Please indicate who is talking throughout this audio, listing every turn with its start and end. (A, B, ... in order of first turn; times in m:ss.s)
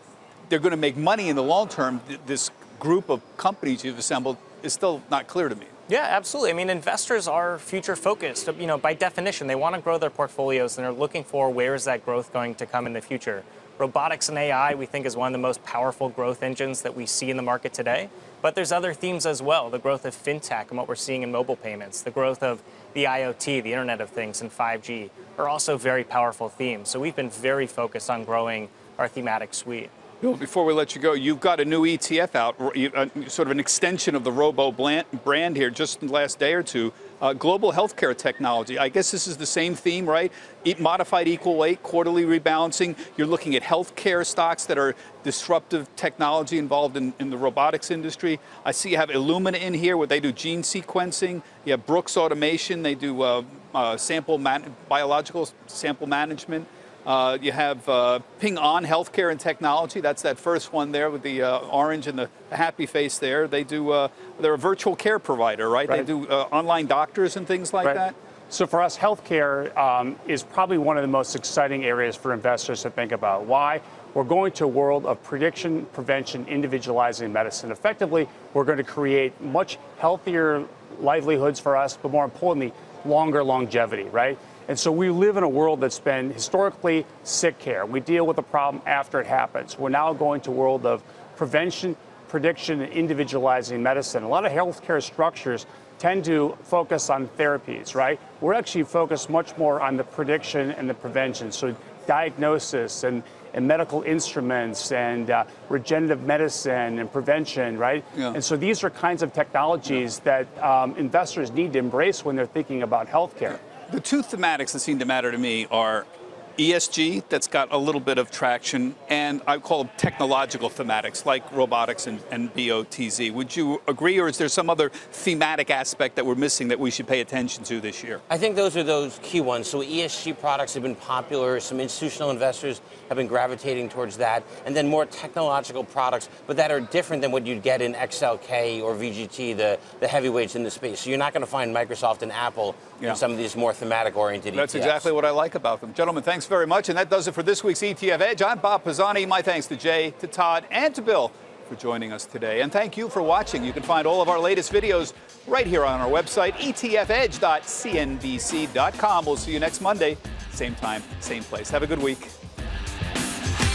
0:00.5-0:05.7 A
0:05.9-0:29.9 B
0:30.2-1:08.1 A
1:07.8-1:53.6 C
1:53.9-1:56.1 A
1:56.6-2:08.2 A
2:08.3-2:25.1 D
2:24.5-2:42.3 A